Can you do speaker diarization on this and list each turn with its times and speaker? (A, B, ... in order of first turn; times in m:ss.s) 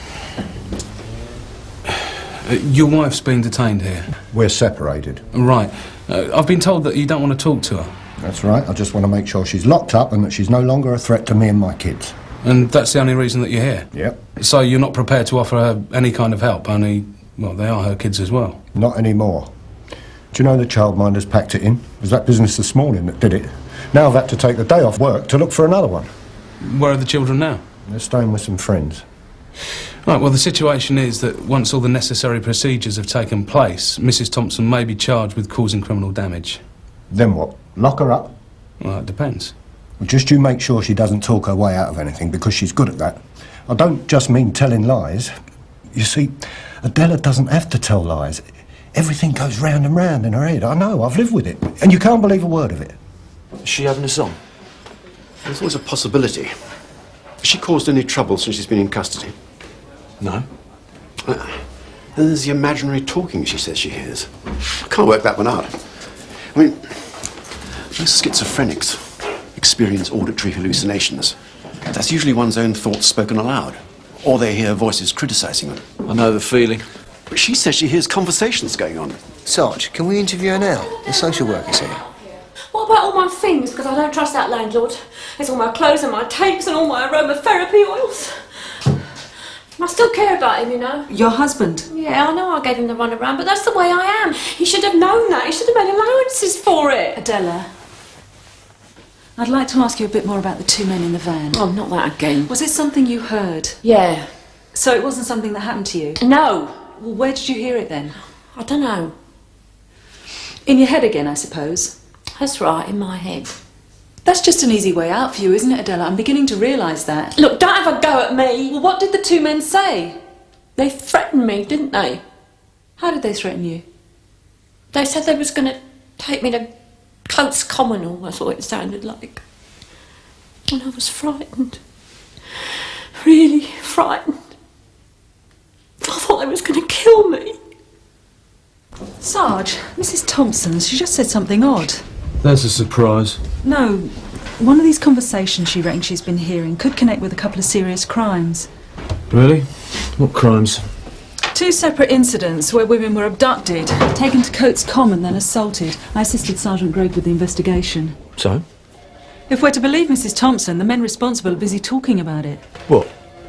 0:01.9-0:04.1 A
0:04.3-0:05.2 B
0:05.3-0:07.9 A
0:08.2-0:12.2 B
0:12.4-0:18.6 A
0:13.9-0:14.2 B
0:18.7-0:19.5 B
0:20.3-0:26.1 B
0:26.6-0:27.6 A
0:27.8-0:29.0 B
0:30.0-0:36.6 A
0:37.1-0:38.3 B
0:38.8-0:39.5 A
0:40.0-0:45.3 B
0:45.9-0:53.0 B
0:53.6-0:54.4 C
0:55.4-0:56.5 D
0:57.4-0:59.4 D
1:00.2-1:00.4 C
1:01.2-1:11.4 D
1:11.9-1:15.9 D
1:16.0-1:16.8 C
1:17.3-1:19.2 D
1:19.4-1:22.0 E
1:22.7-1:28.7 F
1:29.8-1:31.1 F
1:31.1-1:31.9 G
1:31.9-1:37.2 F
1:37.1-1:37.7 G
1:39.4-1:41.6 G
1:41.5-1:42.5 F
1:42.4-1:43.8 G
1:43.8-1:44.3 F
1:44.7-1:46.2 G
1:46.2-1:46.8 F
1:46.8-1:48.2 G
1:48.5-1:49.1 F
1:50.6-1:52.0 G
1:52.4-1:53.5 F
1:54.2-1:57.4 G
1:57.4-1:58.8 F
1:58.7-2:00.2 G
2:00.8-2:02.2 F
2:03.0-2:03.8 G
2:04.9-2:06.7 F
2:07.3-2:09.4 F
2:10.7-2:11.8 F
2:12.5-2:14.4 F
2:16.0-2:17.6 F
2:19.2-2:22.0 G
2:22.4-2:23.4 C
2:23.6-2:28.7 G
2:29.3-2:30.9 C
2:31.5-2:38.2 G
2:38.4-2:38.6 C
2:39.5-2:42.6 G